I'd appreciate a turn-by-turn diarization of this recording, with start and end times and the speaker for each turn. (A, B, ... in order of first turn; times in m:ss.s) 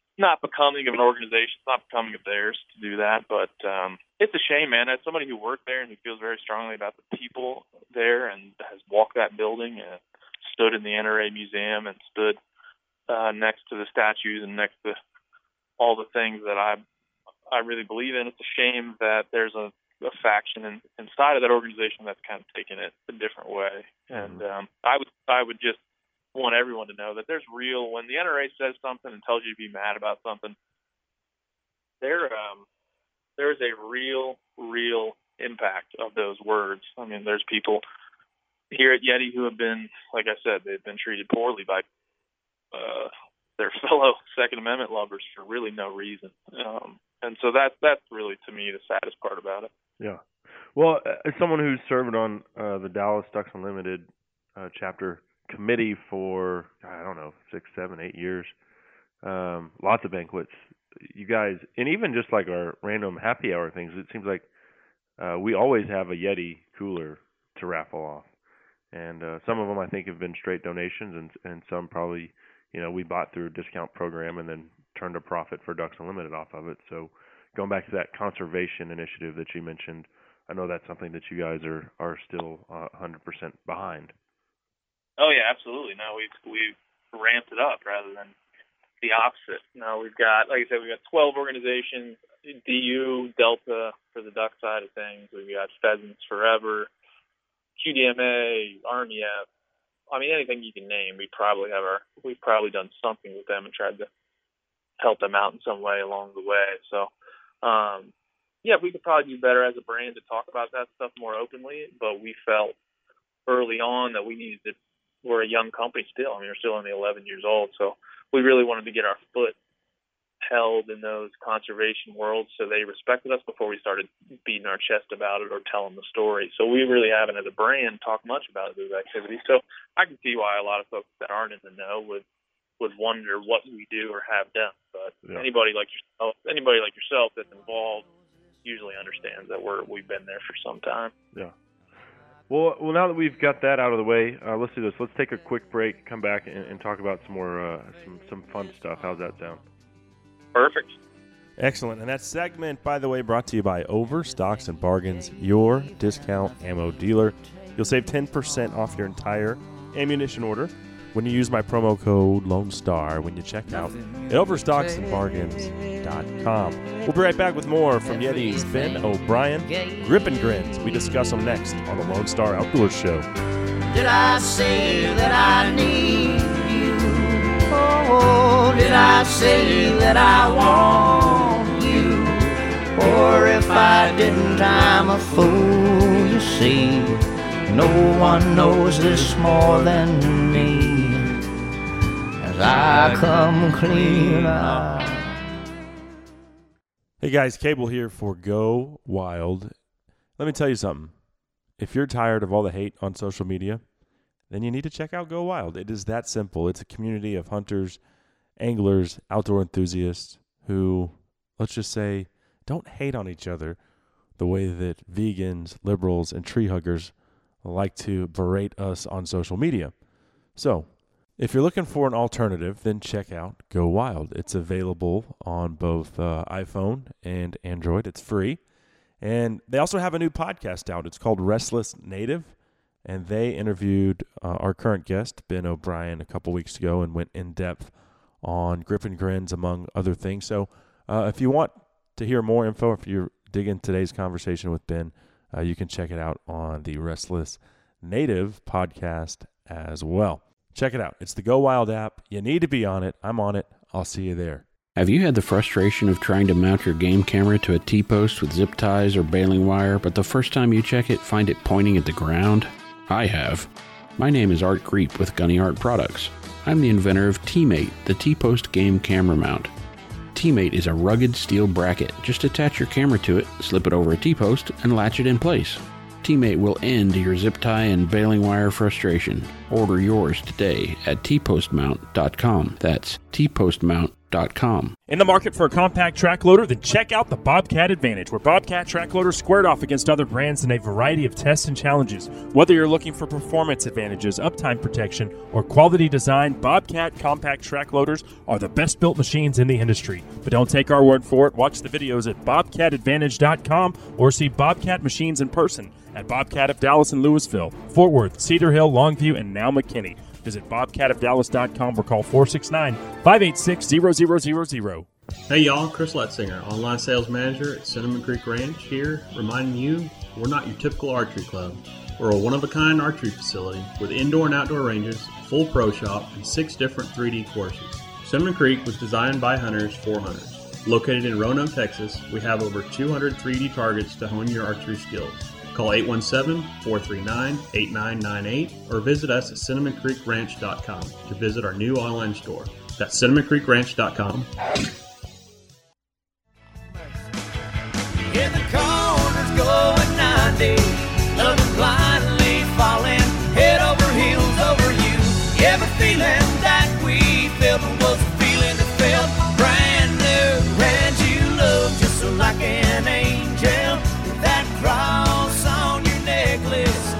0:00.2-0:12.4 A
0:13.1-0:15.0 A
0:15.8-0:16.8 A
0:17.5-0:25.8 A
0:24.1-0:24.4 B
0:26.3-0:30.6 A
0:32.0-0:32.6 A
0:33.4-0:37.8 A
0:38.7-0:41.8 A
0:42.7-0:49.7 A
0:50.0-0:58.5 B
0:59.2-1:04.5 B
1:05.2-1:08.3 B
1:08.9-1:24.1 B
1:25.2-1:28.3 A
1:29.0-1:36.9 A
1:37.8-1:39.4 A
1:40.1-1:44.1 A
1:45.0-1:47.1 A
1:47.6-1:48.1 A
1:48.6-1:52.7 A
1:53.5-1:59.5 A
2:00.4-2:12.2 A
2:12.8-2:18.1 A
2:18.6-2:21.1 A
2:22.5-2:29.6 B
2:30.5-2:31.0 A
2:31.6-2:53.3 B
2:54.0-2:56.8 C
2:57.8-3:01.2 C
3:03.6-3:04.1 C
3:05.4-3:07.0 C
3:12.8-3:13.2 C
3:14.0-3:14.6 C
3:17.2-3:19.7 B
3:20.4-3:21.1 B
3:21.8-3:23.8 B
3:24.5-3:28.0 B
3:28.6-3:33.8 B
3:34.4-3:39.9 B
3:40.6-3:48.6 B
3:49.2-4:14.6 B
4:15.0-4:29.7 D
4:30.3-4:44.9 D
4:45.1-5:15.1 B
5:15.5-5:44.5 E
5:48.9-5:49.4 C
5:54.2-5:54.8 C